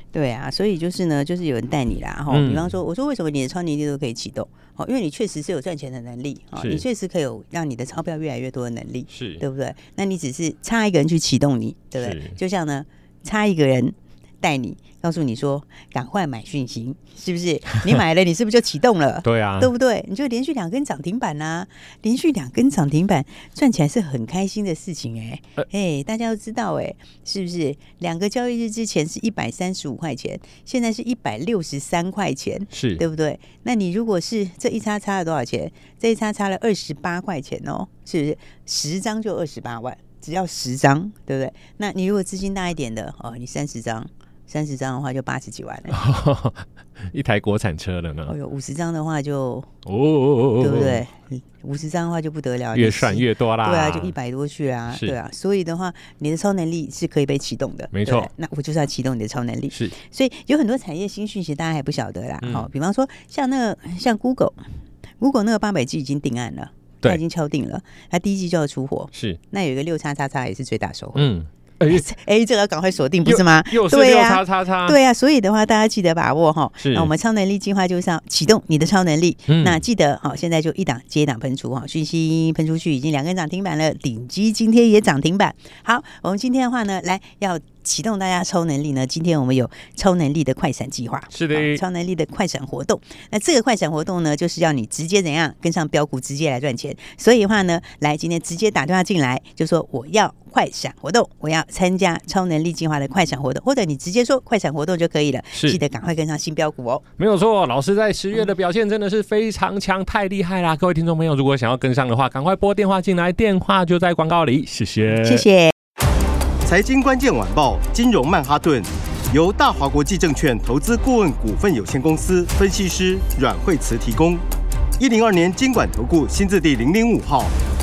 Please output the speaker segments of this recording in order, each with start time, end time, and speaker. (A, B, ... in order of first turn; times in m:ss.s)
0:00.1-0:46.0 A
0:02.3-0:02.8 B
0:06.6-0:06.8 B
0:09.1-0:09.4 B
0:12.0-0:12.4 B
0:19.2-0:19.7 B
0:32.7-0:33.0 B
0:45.9-0:48.3 B
0:48.3-0:49.7 A
0:49.9-0:51.0 B
0:50.6-1:04.6 A
0:52.7-0:54.1 B
0:54.9-0:55.2 B
0:57.9-0:58.3 B
1:02.4-1:02.7 B
1:05.2-1:11.3 A
1:09.1-1:09.4 B
1:11.2-1:12.1 B
1:11.9-1:47.0 A
1:13.2-1:15.0 B
1:16.8-1:17.1 B
1:19.5-1:19.8 B
1:31.3-1:31.8 B
1:45.6-1:45.8 B
1:47.2-1:55.4 B
1:55.1-1:55.7 A
1:56.6-2:04.4 C
2:05.0-2:07.6 C